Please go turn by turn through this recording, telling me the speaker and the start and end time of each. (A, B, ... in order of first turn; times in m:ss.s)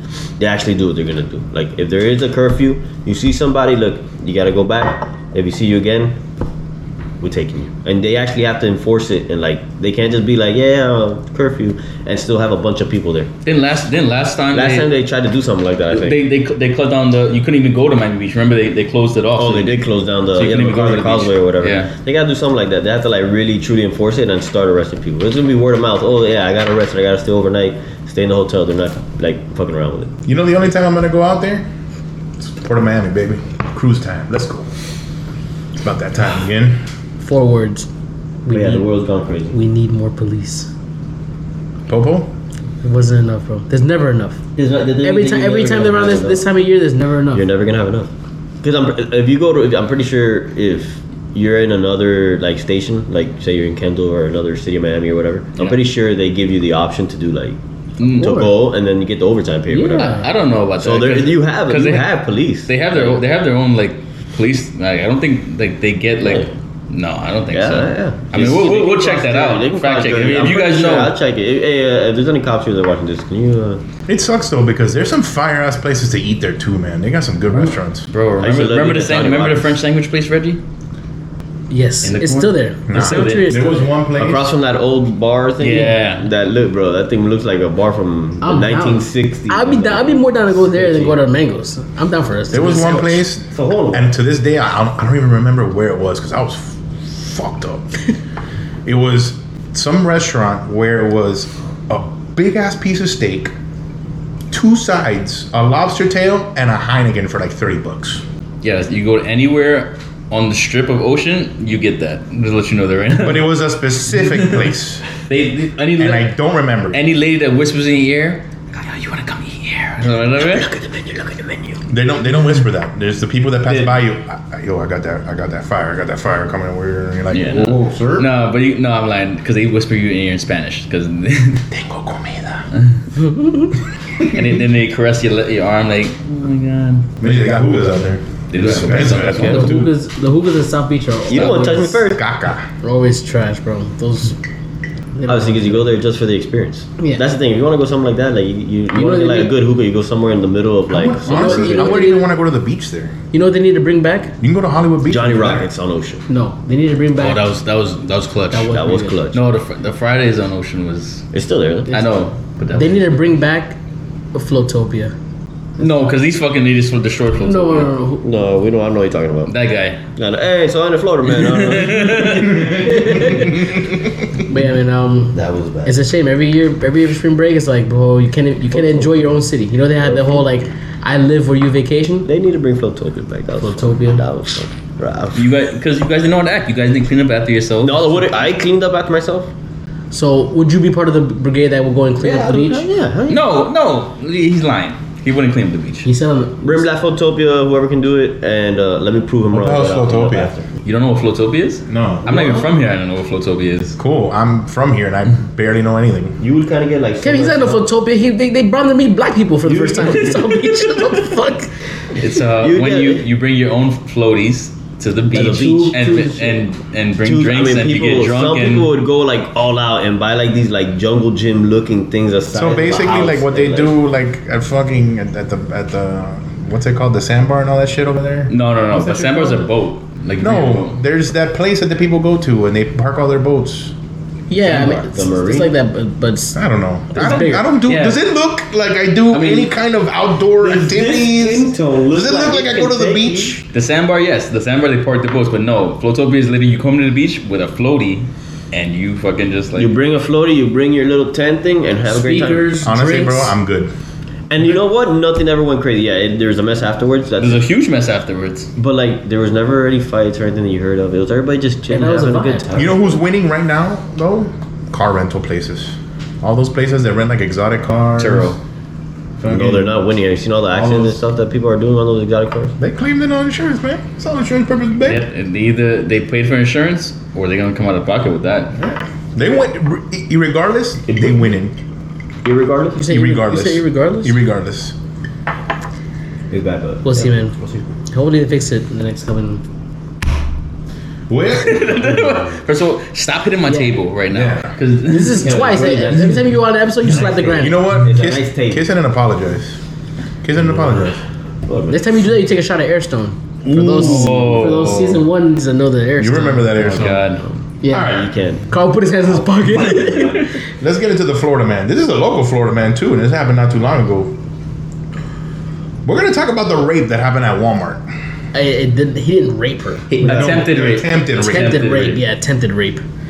0:00.4-0:06.2 A
0:07.2-0:13.3 A
0:13.4-0:14.9 B
0:14.5-0:16.2 A
0:15.9-0:21.9 B
0:19.4-0:30.1 A
0:30.3-0:31.7 C
0:32.4-0:34.7 C
0:35.8-0:36.8 C
0:37.2-0:37.9 D
0:38.4-0:38.9 D
0:38.5-0:39.6 A
0:39.5-0:40.7 D
0:41.9-0:42.3 C
0:42.8-0:44.4 D
0:44.6-0:46.4 A
0:45.0-0:47.4 D
0:47.3-0:48.1 A
0:48.6-1:00.2 A
0:58.0-0:58.5 B
0:58.1-0:58.5 D
0:59.7-1:00.3 D
1:00.0-1:11.1 B
1:00.8-1:03.2 A
1:06.2-1:06.5 A
1:07.5-1:13.8 A
1:14.1-1:18.1 C
1:18.1-1:20.6 B
1:18.4-1:19.8 A
1:21.7-1:23.9 D
1:22.0-1:23.7 B
1:22.9-1:24.5 C
1:24.2-1:31.2 A
1:25.6-1:26.3 B
1:28.4-1:33.2 D
1:32.5-1:37.9 C
1:32.8-1:34.1 A
1:38.8-1:43.5 C
1:44.5-1:48.2 C
1:48.6-1:53.5 B
1:53.2-1:55.1 C
1:55.2-1:56.3 B
1:56.0-1:57.0 C
1:56.9-2:00.7 B
2:00.4-2:01.8 A
2:01.9-2:08.3 C
2:03.7-2:04.0 A
2:07.3-2:11.7 B
2:11.7-2:12.7 C
2:13.2-2:13.6 D
2:14.2-2:17.2 B
2:17.2-2:19.9 C
2:17.2-2:17.5 A
2:18.5-2:19.8 B
2:18.6-2:19.7 A
2:19.4-2:22.0 D
2:21.3-2:22.2 A
2:21.4-2:21.7 B
2:22.1-2:22.7 C
2:22.8-2:24.4 D
2:25.2-2:25.9 D
2:25.3-2:32.2 A
2:28.9-2:29.6 D
2:30.9-2:33.1 C
2:31.2-2:32.3 D
2:33.3-2:34.3 D
2:34.4-2:35.7 C
2:35.1-2:36.2 A
2:36.3-2:37.4 D
2:37.2-2:41.3 B
2:38.5-2:39.2 D
2:38.7-2:39.4 A
2:41.3-2:41.9 A
2:41.9-2:43.2 B
2:42.7-2:43.8 D
2:44.3-2:45.1 D
2:45.8-2:47.9 B
2:47.4-2:48.2 D
2:48.2-2:49.5 A
2:49.5-2:50.0 B
2:50.2-2:53.5 A
2:51.3-2:53.2 B
2:52.6-2:53.4 C
2:52.8-2:53.5 D
2:54.5-3:02.3 D
2:55.3-2:56.0 A
2:58.7-2:59.3 A
3:00.0-3:00.5 A
3:02.3-3:05.4 A
3:03.6-3:04.2 D
3:05.4-3:08.5 B
3:07.8-3:09.5 A
3:10.1-3:12.9 D
3:12.2-3:13.4 A
3:13.3-3:16.1 B
3:16.0-3:16.9 D
3:16.6-3:20.7 A
3:19.5-3:20.5 C
3:20.8-3:24.0 B
3:21.9-3:22.4 C
3:22.3-3:22.6 A
3:24.0-3:26.4 C
3:26.4-3:27.8 A
3:27.2-3:31.7 D
3:29.6-3:30.6 A
3:32.2-3:38.9 B
3:32.6-3:33.2 A
3:35.3-3:36.0 A
3:35.3-3:36.6 D
3:37.2-3:43.9 A
3:42.5-3:49.6 C
3:48.5-3:51.0 B
3:50.4-3:53.9 C
3:54.5-3:56.6 D
3:54.6-3:55.7 A
3:56.6-4:03.7 C
3:57.1-3:57.7 D
3:57.2-3:58.2 B
3:59.3-3:59.7 B
4:00.6-4:03.6 A
4:03.7-4:09.9 B
4:09.8-4:12.7 A
4:12.1-4:13.6 D
4:12.8-4:13.9 C
4:14.5-4:17.6 A
4:17.4-4:18.7 B
4:18.8-4:23.2 A
4:21.9-4:22.6 D
4:22.8-4:28.6 C
4:28.2-4:28.6 B
4:29.4-4:30.0 C
4:29.5-4:32.8 A
4:30.7-4:31.2 C
4:32.8-4:35.2 C
4:35.0-4:38.8 B
4:38.8-4:41.8 C
4:41.1-4:41.4 A
4:42.4-4:43.1 A
4:43.0-4:44.4 D
4:43.1-4:45.0 C
4:46.5-4:47.8 A
4:47.0-4:47.6 D
4:48.1-4:49.6 D
4:51.3-4:52.1 C
4:51.5-4:55.8 B
4:53.7-4:53.9 D
4:54.3-4:54.8 C
4:55.1-4:57.8 D
4:55.3-4:56.6 A
4:57.1-4:58.8 A
4:57.6-4:59.8 C
5:00.4-5:01.2 C
5:01.7-5:02.1 A
5:01.9-5:07.0 D
5:03.6-5:04.6 C
5:04.0-5:05.2 B
5:06.2-5:07.3 C
5:06.8-5:07.5 B
5:07.2-5:08.7 A
5:07.8-5:08.2 D
5:07.9-5:08.3 C
5:08.7-5:10.5 D
5:09.3-5:10.5 A
5:10.8-5:14.4 C
5:16.0-5:18.1 C
5:18.5-5:20.6 D
5:20.1-5:22.2 B
5:20.2-5:21.9 C
5:21.4-5:23.0 D